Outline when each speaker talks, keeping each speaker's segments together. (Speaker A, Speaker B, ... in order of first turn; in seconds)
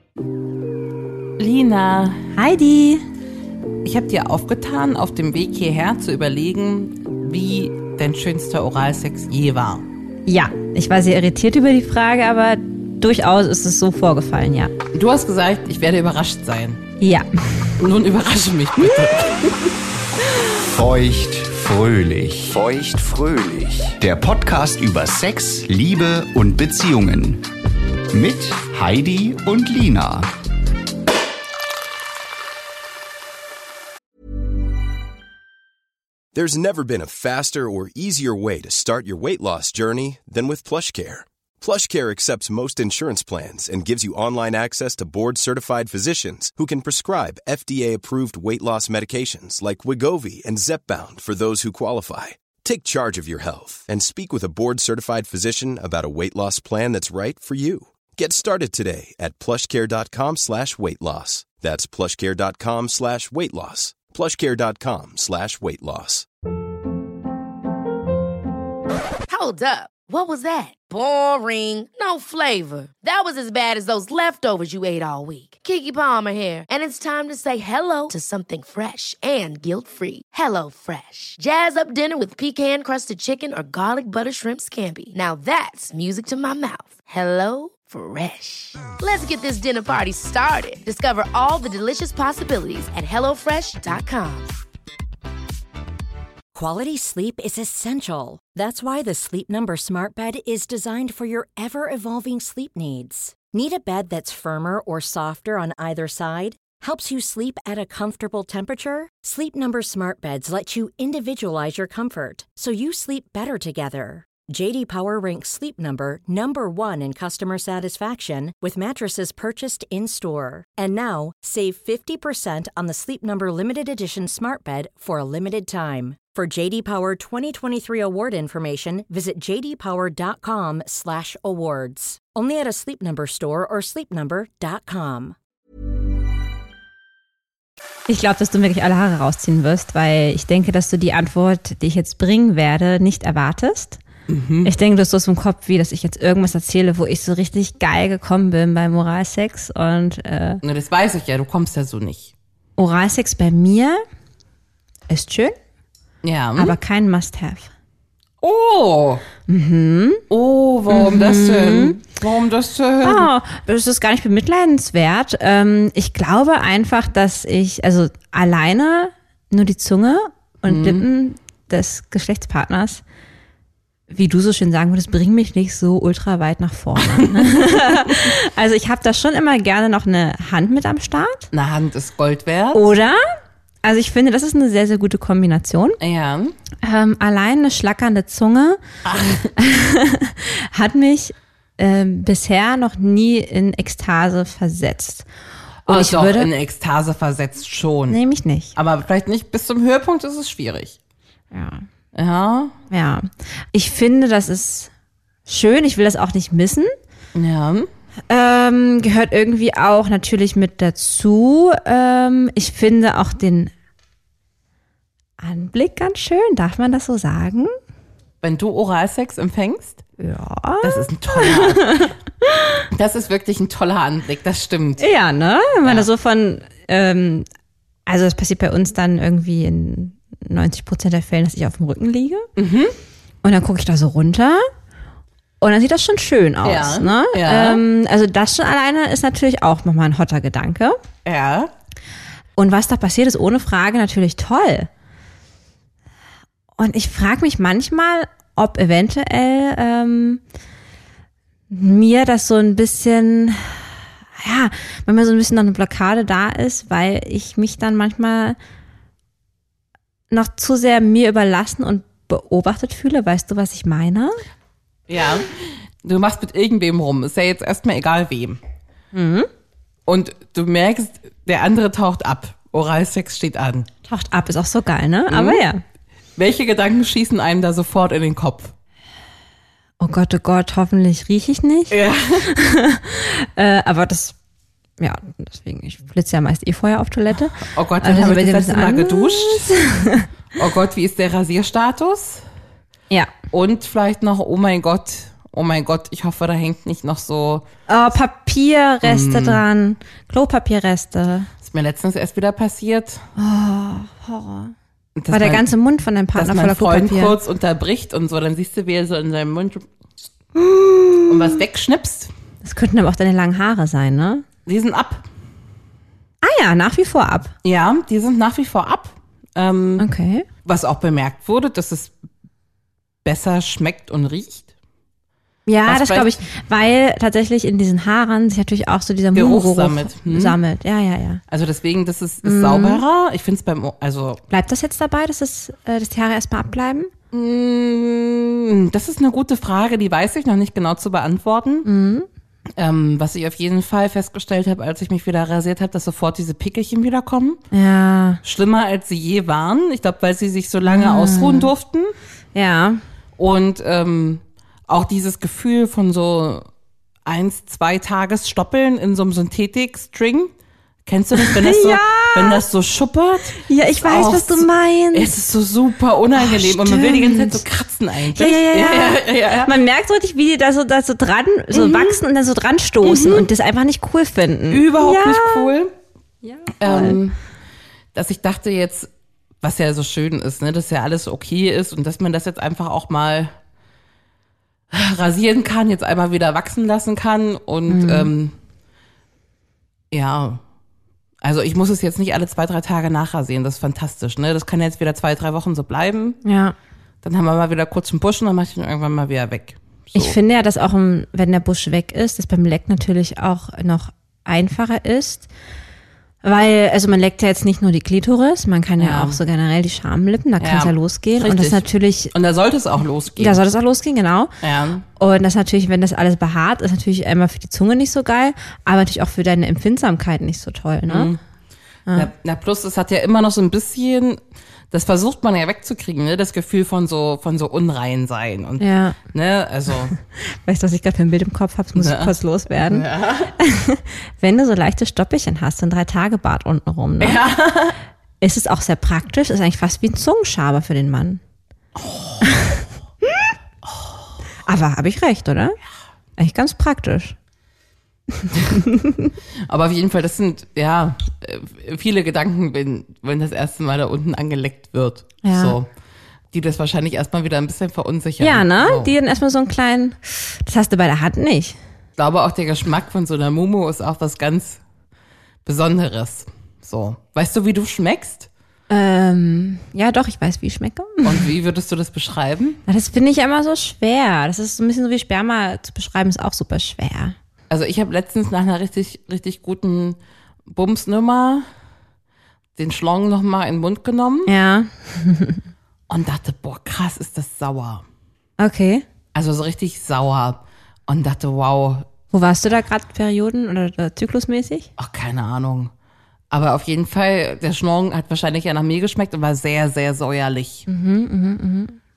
Speaker A: 1.4-2.3, 3.8-9.9, 14.9-16.8, 17.8-19.7, 144.3-144.7, 150.6-152.3, 156.2-156.8, 158.4-159.2, 160.3-163.3, 170.7-171.1, 177.0-178.2, 181.5-182.9, 186.0-186.6, 189.1-189.5, 195.8-198.2, 198.8-201.0, 202.1-202.8, 207.3-207.9, 218.4-220.0, 220.8-222.1, 222.9-225.1, 232.6-232.9, 236.6-237.8, 241.2-241.7, 265.1-268.6, 270.1-273.9, 275.3-275.6, 276.4-278.7, 281.9-282.5, 287.6-289.8, 290.6-292.4, 293.5-297.7, 299.0-299.6, 301.6-303.2, 305.2-305.7, 306.4-309.9, 311.3-312.3, 314.7-315.2, 317.6-320.1, 320.6-322.2, 323.2-324.7, 325.9-326.4, 329.3-330.6, 331.5-334.4, 337.3-341.9, 342.8-347.6, 348.4-352.1, 353.4-356.7, 357.2-360.5, 361.1-369.7, 371.7-372.2, 373.0-373.5, 374.7-375.9, 376.8-377.4, 378.1-379.1, 379.6-383.5, 384.9-388.6, 390.1-390.6, 391.4-396.4, 397.2-400.4, 409.0-409.4, 410.6-413.6, 414.6-415.1, 421.1-421.4, 422.1-430.1, 431.9-433.5, 437.2-438.0, 441.9-442.6, 443.9-444.2, 449.6-455.9, 456.5-459.1, 462.2-464.8, 465.6-468.5, 471.2-472.8, 477.7-481.7, 482.8-484.5, 486.1-488.1, 489.3-492.1, 495.0-495.9, 496.5-500.9
Speaker B: 2.4-3.0, 10.3-14.7, 17.0-17.8, 138.1-144.0, 144.6-150.6, 152.8-154.0, 155.1-155.5, 156.6-157.7, 159.5-160.2, 160.9-162.0, 163.0-173.0, 174.1-181.5, 182.7-183.2, 183.8-186.0, 186.8-188.8, 189.6-195.3, 195.9-196.5, 198.1-198.7, 201.5-201.9, 202.9-204.9, 205.4-206.9, 208.3-213.7, 215.4-217.7, 220.2-222.8, 225.0-227.4, 228.1-232.5, 233.4-234.7, 235.6-241.0, 242.6-244.9, 246.8-250.4, 251.7-258.6, 260.3-264.4, 269.1-269.5, 274.1-275.8, 280.0-284.4, 285.0-290.3, 297.9-301.5, 303.4-304.7, 305.3-307.4, 310.6-311.6, 312.6-314.4, 316.4-317.5, 320.0-320.5, 325.7-331.4, 332.4-333.0, 334.5-337.1, 341.9-342.3, 347.7-348.4, 350.9-351.7, 352.6-353.0, 361.4-362.6, 363.6-365.3, 366.4-367.6, 368.3-375.7, 376.4-377.2, 387.9-388.3, 396.4-396.8, 400.1-405.5, 406.4-412.3, 413.4-414.5, 415.2-421.3, 428.8-429.2, 430.3-437.4, 438.4-441.4, 442.5-442.8, 444.6-445.8, 446.4-447.4, 448.5-449.3, 455.4-455.8, 458.4-461.8, 468.9-471.5, 472.9-477.4, 484.5-485.6, 488.6-489.1, 492.3-494.9, 500.9-502.0
Speaker C: 20.7-27.4, 28.1-30.3
Speaker D: 36.3-66.2
Speaker E: 69.3-94.5
Speaker F: 96.5-135.4